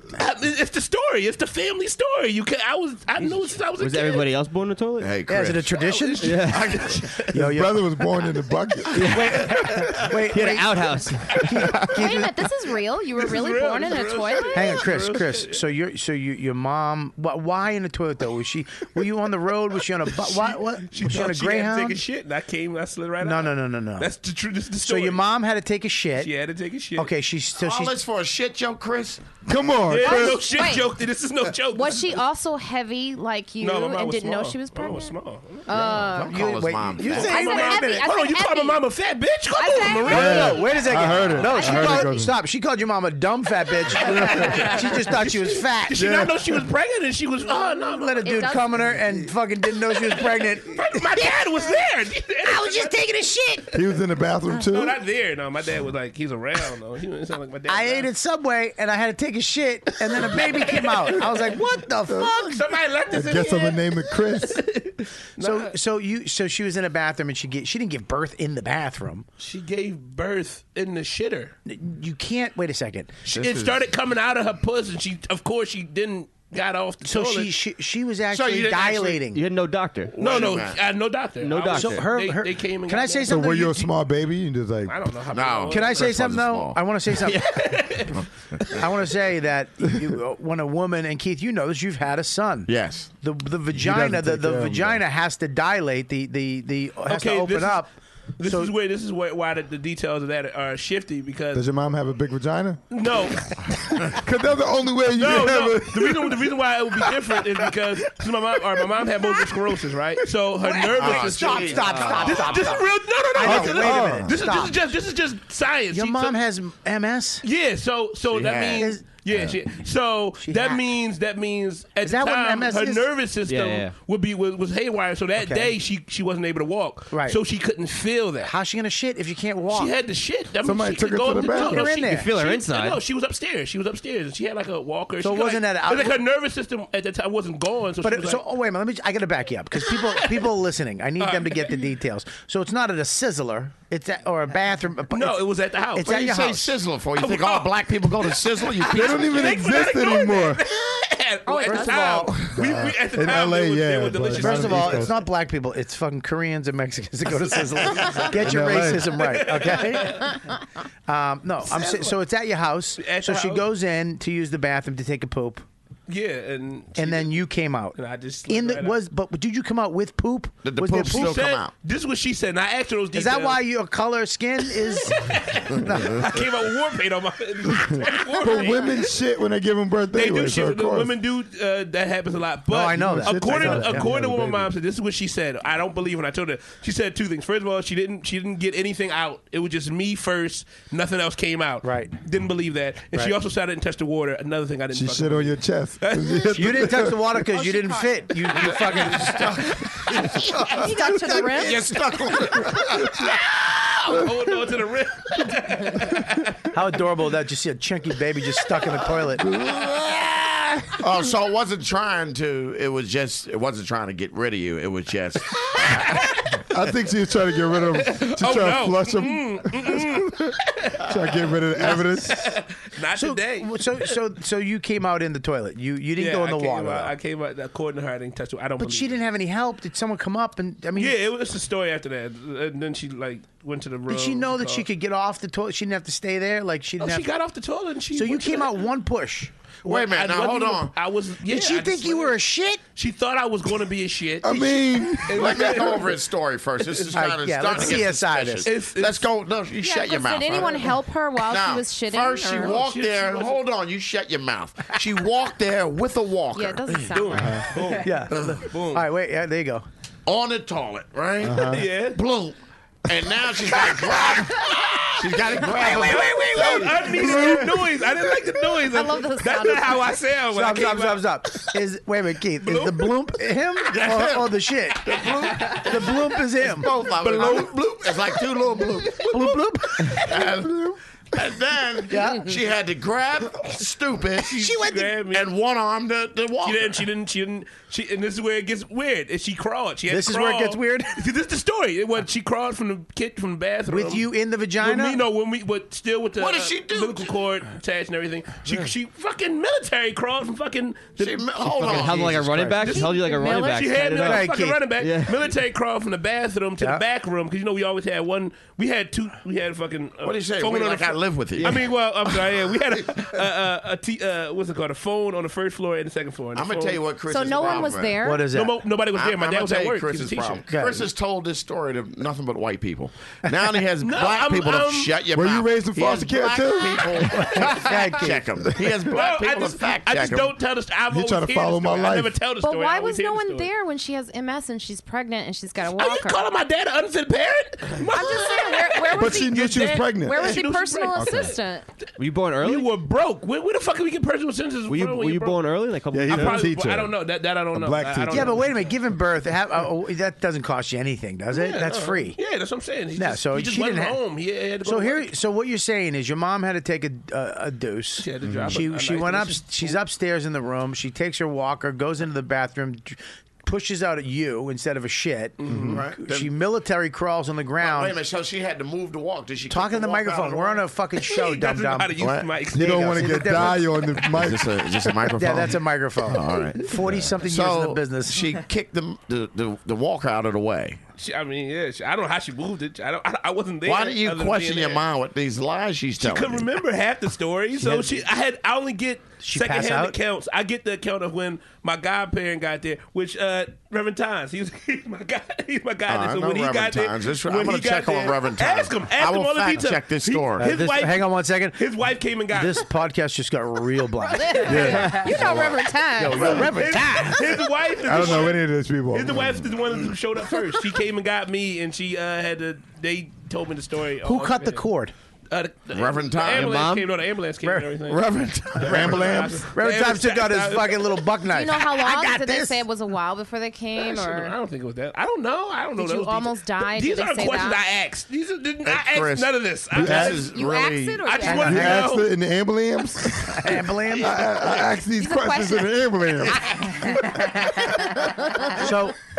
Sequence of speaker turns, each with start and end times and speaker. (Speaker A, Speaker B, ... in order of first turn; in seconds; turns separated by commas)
Speaker A: 0.1-4.2, Speaker B: 3.8-5.2, Speaker C: 5.0-7.3, Speaker D: 5.3-6.4, Speaker A: 5.8-7.2, Speaker B: 6.2-6.7, Speaker D: 7.3-7.9, Speaker E: 7.3-9.4, Speaker B: 8.9-9.3, Speaker D: 9.0-12.5, Speaker B: 10.3-11.9, Speaker F: 11.9-14.8, Speaker A: 13.2-15.6, Speaker D: 14.5-22.0, Speaker A: 20.2-25.2, Speaker D: 23.2-24.1, Speaker D: 24.8-26.3, Speaker A: 26.2-27.1, Speaker D: 27.0-28.0, Speaker C: 27.6-29.2, Speaker E: 29.4-30.4, Speaker A: 29.9-32.1, Speaker F: 30.0-30.9, Speaker F: 31.7-35.1, Speaker A: 33.6-35.7, Speaker F: 35.7-36.4, Speaker C: 35.7-37.4, Speaker D: 36.3-38.1, Speaker F: 37.1-38.8, Speaker A: 37.2-40.8, Speaker F: 39.5-40.5, Speaker E: 40.1-42.3, Speaker D: 40.1-46.1, Speaker F: 41.5-42.0, Speaker E: 44.0-44.7, Speaker A: 44.1-48.6, Speaker E: 45.9-46.6, Speaker D: 47.6-51.7, Speaker F: 48.2-48.8, Speaker A: 50.2-53.0, Speaker D: 52.4-53.8, Speaker E: 53.7-55.0, Speaker A: 54.6-58.1, Speaker D: 57.7-62.6, Speaker A: 60.1-61.5, Speaker E: 62.1-62.4, Speaker A: 62.4-65.7, Speaker E: 63.1-64.6, Speaker D: 65.4-69.2, Speaker A: 69.4-71.5, Speaker D: 71.7-73.2, Speaker C: 73.2-73.8, Speaker A: 73.3-77.6, Speaker D: 77.0-79.4, Speaker C: 78.3-79.3, Speaker B: 79.3-80.3, Speaker C: 80.1-80.8, Speaker A: 80.2-83.4, Speaker B: 81.4-82.1, Speaker D: 81.7-83.9, Speaker E: 83.3-84.9, Speaker A: 84.8-86.1, Speaker C: 85.3-86.9, Speaker D: 85.7-88.0, Speaker B: 87.3-88.0, Speaker A: 87.4-88.2, Speaker D: 88.7-97.9, Speaker C: 92.7-93.1, Speaker E: 93.7-95.0, Speaker A: 97.1-97.8, Speaker A: 98.4-101.7, Speaker D: 98.4-98.7, Speaker E: 101.5-102.8, Speaker A: 102.9-103.5, Speaker E: 103.9-107.4, Speaker A: 105.1-116.4, Speaker D: 110.6-114.8, Speaker C: 110.9-112.9, Speaker B: 111.9-112.3, Speaker E: 113.4-114.4, Speaker D: 115.9-117.4, Speaker A: 117.4-128.5, Speaker C: 118.3-119.5, Speaker D: 118.8-119.0, Speaker D: 120.4-120.8, Speaker D: 122.0-123.1, Speaker B: 123.5-123.9, Speaker D: 125.4-125.7, Speaker D: 127.1-127.4, Speaker D: 128.4-129.9, Speaker A: 129.7-138.4, Speaker E: 130.6-131.9, Speaker D: 131.4-132.3, Speaker B: 132.0-133.0, Speaker D: 135.2-136.2, Speaker D: 138.0-146.8, Speaker A: 139.8-140.5, Speaker A: 141.2-141.9, Speaker A: 145.1-146.2, Speaker C: 146.0-149.4, Speaker A: 147.2-155.1, Speaker E: 148.9-150.6, Speaker F: 151.5-152.2, Speaker D: 151.6-152.6, Speaker E: 152.5-155.2, Speaker D: 154.3-160.5, Speaker A: 157.9-160.3, Speaker E: 158.3-159.2, Speaker D: 161.1-165.6, Speaker A: 161.7-162.2, Speaker A: 163.0-163.7, Speaker A: 166.1-167.4, Speaker D: 167.0-171.4, Speaker A: 167.9-169.0, Speaker C: 170.6-171.7, Speaker A: 171.1-173.6, Speaker D: 173.1-176.4, Speaker A: 174.9-179.0, Speaker E: 177.9-181.2, Speaker A: 180.1-197.1, Speaker D: 182.7-184.1, Speaker E: 182.9-184.7, Speaker D: 191.8-192.1, Speaker E: 194.9-197.3, Speaker D: 196.5-199.6, Speaker F: 197.6-198.1, Speaker A: 198.5-199.7, Speaker C: 199.2-203.3, Speaker F: 200.6-201.9, Speaker A: 203.2-206.4, Speaker D: 206.7-209.4, Speaker E: 209.4-210.2, Speaker C: 211.0-216.2, Speaker A: 216.0-216.4, Speaker E: 216.7-222.5, Speaker A: 217.9-224.1, Speaker D: 221.8-222.0, Speaker D: 223.1-227.1, Speaker A: 226.2-229.2, Speaker D: 228.8-231.2, Speaker A: 230.9-234.8, Speaker D: 234.1-237.3, Speaker A: 237.0-238.9, Speaker D: 238.1-239.5, Speaker C: 239.8-240.9, Speaker A: 239.8-242.4, Speaker D: 241.4-242.8, Speaker A: 242.9-246.2, Speaker E: 244.4-245.9, Speaker C: 245.3-257.2, Speaker D: 247.1-248.7, Speaker A: 247.8-248.0, Speaker A: 248.6-249.3, Speaker F: 249.8-252.8, Speaker A: 252.6-253.6, Speaker F: 256.5-258.1, Speaker A: 257.1-259.1, Speaker E: 257.4-257.6, Speaker D: 258.0-259.9, Speaker C: 258.3-258.6, Speaker C: 260.2-267.0, Speaker E: 261.4-261.9, Speaker A: 261.7-262.2, Speaker D: 263.9-267.9, Speaker A: 265.8-271.6, Speaker F: 268.9-270.1, Speaker D: 270.5-276.9, Speaker A: 272.6-273.1, Speaker C: 273.9-279.6, Speaker A: 277.2-278.1, Speaker A: 279.1-280.3, Speaker D: 279.2-280.7, Speaker C: 280.1-287.0, Speaker D: 282.1-282.5, Speaker D: 284.5-285.2, Speaker A: 284.5-285.5, Speaker A: 286.6-302.1, Speaker D: 290.1-291.3, Speaker D: 293.9-295.2, Speaker C: 296.4-297.4, Speaker C: 301.2-302.8, Speaker B: 301.6-305.5, Speaker A: 302.8-317.0, Speaker F: 302.9-303.6, Speaker D: 304.2-304.9, Speaker C: 310.2-312.1, Speaker B: 311.6-311.9, Speaker C: 316.5-318.3, Speaker F: 317.3-318.4, Speaker D: 318.2-318.8, Speaker A: 318.5-320.7, Speaker C: 319.1-330.6, Speaker D: 320.7-321.1, Speaker A: 324.0-325.1, Speaker E: 325.3-327.6, Speaker D: 327.3-328.5, Speaker A: 329.1-333.7, Speaker E: 331.1-332.4, Speaker F: 332.6-336.4, Speaker A: 336.0-341.6, Speaker F: 338.1-341.8, Speaker E: 339.1-341.6, Speaker B: 342.2-342.9, Speaker A: 342.6-345.7, Speaker B: 344.9-346.7, Speaker E: 346.1-347.2, Speaker A: 346.2-348.9, Speaker E: 347.7-348.7, Speaker D: 348.3-352.4, Speaker A: 351.5-355.3, Speaker D: 353.1-354.2, Speaker D: 354.8-368.2, Speaker A: 358.2-360.0, Speaker E: 358.4-358.8, Speaker A: 365.6-366.0, Speaker E: 365.7-366.0, Speaker C: 365.9-366.5, Speaker C: 367.8-370.9, Speaker D: 369.7-374.0, Speaker A: 371.2-373.8, Speaker C: 372.2-372.6, Speaker E: 372.7-374.8, Speaker C: 374.3-381.0, Speaker D: 375.1-378.5, Speaker A: 381.2-385.0, Speaker C: 383.8-386.7, Speaker A: 386.2-402.9, Speaker D: 387.8-388.2, Speaker D: 389.4-390.1, Speaker C: 396.1-400.7, Speaker D: 400.6-401.9, Speaker D: 402.5-405.4, Speaker F: 404.3-406.6, Speaker E: 404.6-405.7, Speaker A: 404.8-405.0, Speaker D: 406.1-407.6, Speaker E: 406.4-406.7, Speaker A: 406.4-414.9, Speaker E: 408.0-409.7, Speaker D: 414.2-415.1, Speaker A: 415.5-421.2, Speaker C: 415.9-416.9, Speaker B: 416.5-417.1, Speaker D: 417.6-417.9, Speaker C: 418.1-419.2, Speaker E: 418.4-419.6, Speaker D: 418.8-422.8, Speaker F: 421.5-424.5, Speaker A: 424.0-430.5, Speaker F: 425.9-427.8, Speaker C: 428.8-431.4, Speaker E: 429.9-430.4, Speaker F: 430.1-431.8, Speaker A: 431.2-432.3, Speaker D: 431.4-432.1, Speaker E: 431.5-437.1, Speaker D: 433.5-434.5, Speaker A: 434.1-434.9, Speaker F: 435.2-436.0, Speaker F: 436.6-438.8, Speaker A: 437.4-437.8, Speaker D: 438.7-439.1